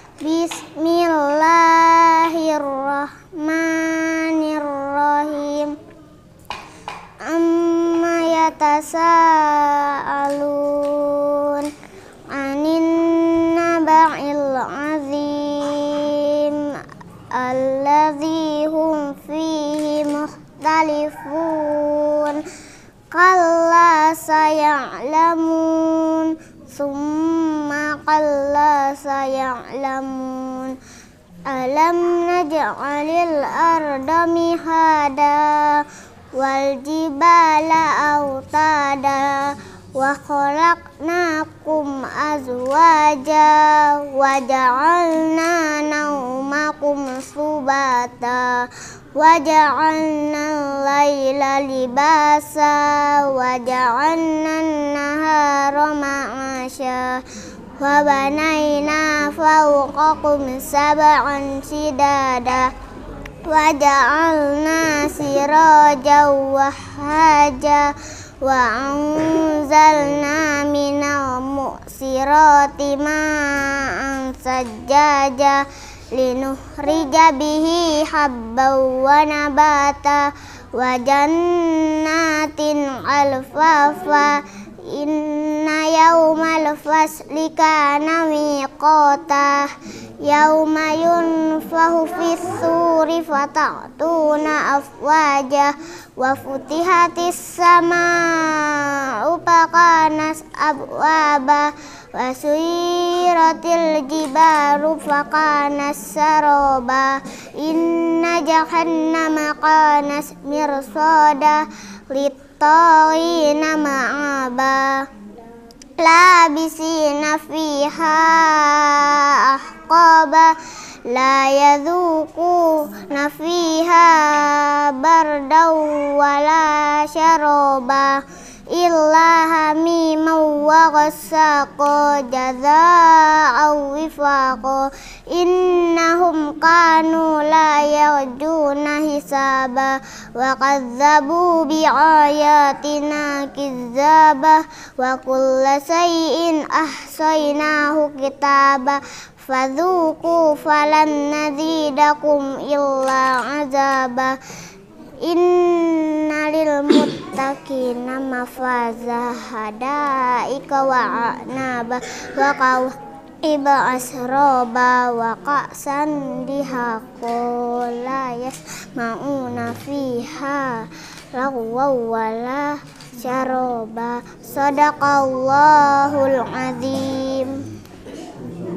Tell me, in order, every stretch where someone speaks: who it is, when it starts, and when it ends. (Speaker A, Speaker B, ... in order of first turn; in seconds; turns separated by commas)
Speaker A: 0.2-5.8, Speaker A: 7.2-11.7, Speaker A: 12.3-22.5, Speaker A: 23.1-30.8, Speaker A: 31.4-57.3, Speaker A: 57.8-62.7, Speaker A: 63.4-115.1, Speaker A: 116.0-154.4, Speaker A: 155.2-177.7